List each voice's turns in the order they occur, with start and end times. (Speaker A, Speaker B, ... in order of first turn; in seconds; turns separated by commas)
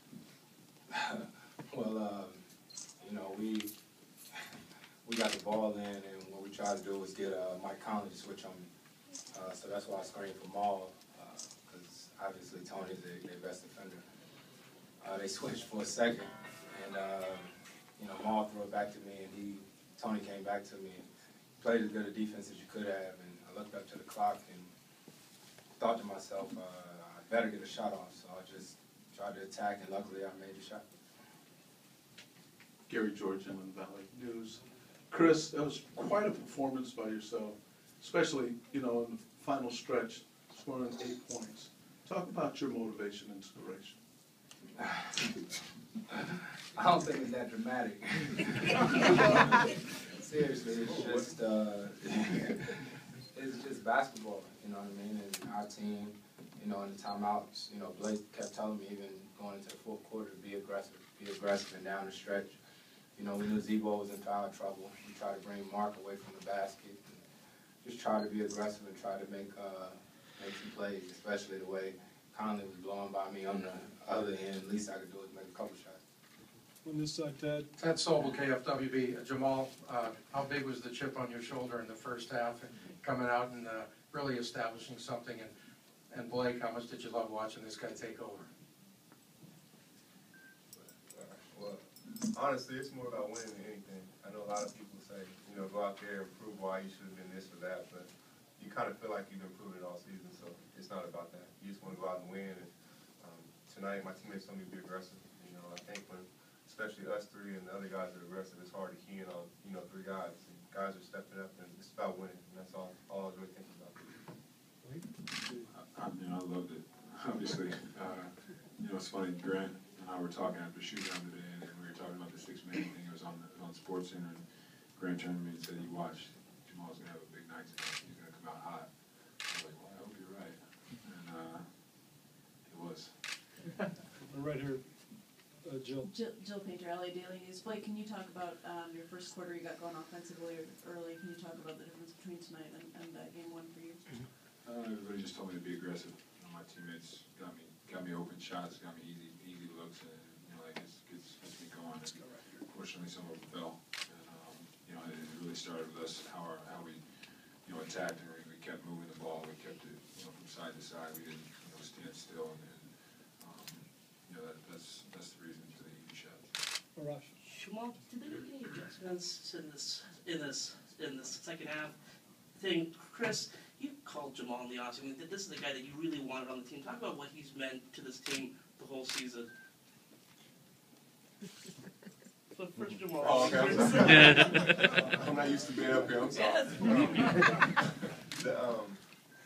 Speaker A: 0.9-2.4, Speaker A: 3.0-3.7, Speaker A: 5.0-8.7, Speaker A: 9.3-14.0, Speaker A: 15.0-21.0, Speaker A: 21.6-24.7, Speaker A: 25.8-30.8, Speaker B: 32.9-44.0, Speaker A: 44.8-45.3, Speaker A: 46.7-52.8, Speaker A: 53.3-62.6, Speaker A: 63.2-67.2, Speaker A: 67.8-76.0, Speaker C: 76.8-77.7, Speaker D: 77.8-85.5, Speaker D: 86.1-88.5, Speaker E: 90.7-114.2, Speaker C: 114.8-115.7, Speaker F: 115.3-133.7, Speaker C: 134.3-136.1, Speaker G: 136.1-144.2, Speaker F: 144.6-166.8, Speaker C: 152.2-152.6, Speaker C: 166.9-167.3, Speaker H: 167.4-172.0, Speaker H: 172.5-179.5, Speaker H: 182.6-184.5, Speaker E: 183.2-189.2, Speaker H: 186.3-187.6